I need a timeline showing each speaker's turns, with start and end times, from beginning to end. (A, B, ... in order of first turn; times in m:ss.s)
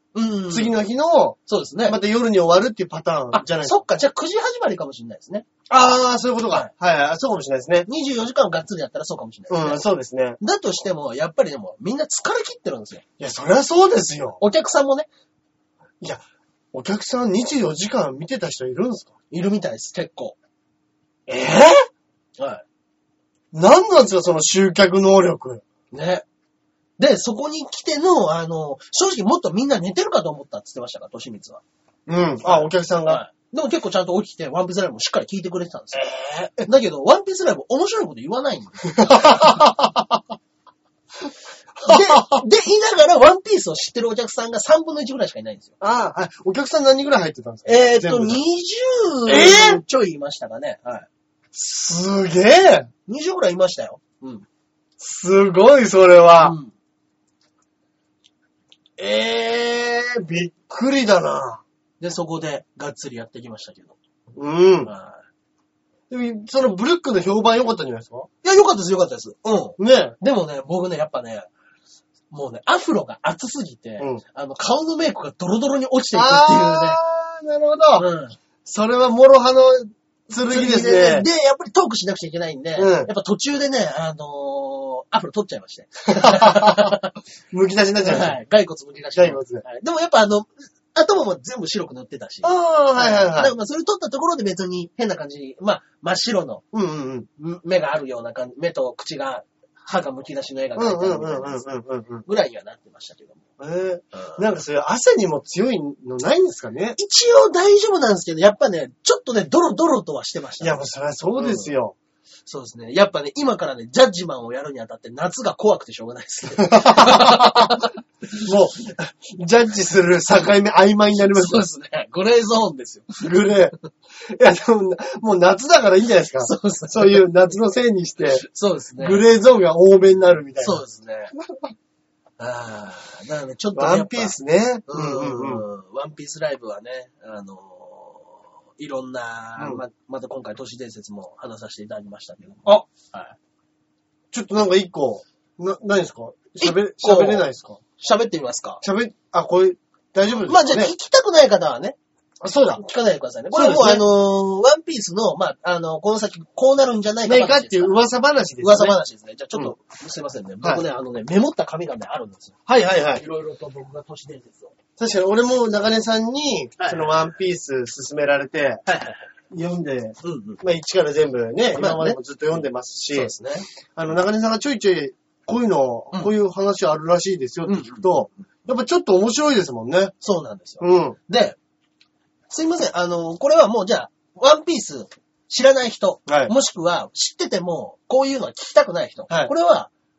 0:00.1-0:00.8 A
0:00.5-0:03.8 B
0:01.5-0:02.0 A
0:03.3-0:05.5 A
0:05.7-0:07.9 B
0:07.9-0:09.8 A
0:09.5-0:10.4 B
0:10.4-0:13.0 A
0:13.2-0:14.4 B
0:14.4-0:15.1 A
0:16.0-0:19.1 B
0:19.3-0:20.4 A
0:21.3-0:21.8 B
0:22.4-0:22.6 A
0:23.5-0:25.6 B
0:25.9-0:26.2 A
0:27.0-0:31.6 A
0:32.1-0:33.2 B
0:32.4-0:39.6 A
0:38.9-0:40.2 B
0:41.8-0:42.4 B
0:41.8-0:45.7 A
0:45.8-0:48.4 B
0:47.6-0:51.1 A
0:49.3-0:49.8 B
0:51.5-0:52.9 B
0:53.1-0:54.4 A
0:55.0-0:56.6 B
0:56.4-0:56.7 A
0:59.0-1:01.6 B
1:02.0-1:04.0 A
1:04.3-1:04.9 B
1:04.8-1:05.2 A
1:06.1-1:08.3 B
1:08.4-1:11.5 A
1:09.8-1:10.2 B
1:12.3-1:17.0 A
1:16.1-1:18.1 B
1:18.0-1:18.4 A
1:18.6-1:21.2 B
1:20.4-1:27.2 A
1:22.8-1:23.1 B
1:26.2-1:26.9 B
1:27.5-1:28.4 B
1:28.0-1:36.6 A
1:29.1-1:29.6 B
1:32.4-1:33.5 B
1:36.7-1:37.3 B
1:37.4-1:41.7 A
1:40.8-1:42.2 B
1:42.2-1:43.4 A
1:43.6-1:47.0 B
1:44.1-1:44.4 A
1:47.0-1:50.8 A
1:50.6-1:52.0 B
1:51.4-1:51.7 A
1:52.5-1:58.0 A
1:56.6-1:57.9 B
1:58.4-2:01.6 B
2:01.1-2:03.3 A
2:03.2-2:08.4 B
2:06.4-2:07.3 A
2:08.2-2:09.2 A
2:09.0-2:10.8 B
2:10.6-2:11.3 A
2:11.4-2:11.7 B
2:12.4-2:23.4 A
2:13.7-2:15.6 B
2:19.6-2:19.8 B
2:24.3-2:27.8 B
2:26.6-2:27.5 A
2:28.0-2:28.8 A
2:28.8-2:30.9 B
2:30.4-2:32.0 A
2:32.4-2:32.8 B
2:32.8-2:38.0 A
2:33.5-2:34.1 B
2:37.2-2:39.0 B
2:38.6-2:42.6 A
2:42.7-2:43.2 B
2:43.1-2:44.7 A
2:45.0-2:48.8 B
2:46.8-2:47.3 A
2:48.8-2:49.2 A
2:49.5-2:53.3 B
2:50.2-2:50.6 A
2:51.7-2:52.2 A
2:53.1-2:53.7 A
2:53.9-3:00.1 B
2:57.6-2:58.3 A
3:00.2-3:01.6 A
3:00.8-3:01.2 B
3:02.5-3:09.9 A
3:06.3-3:06.5 B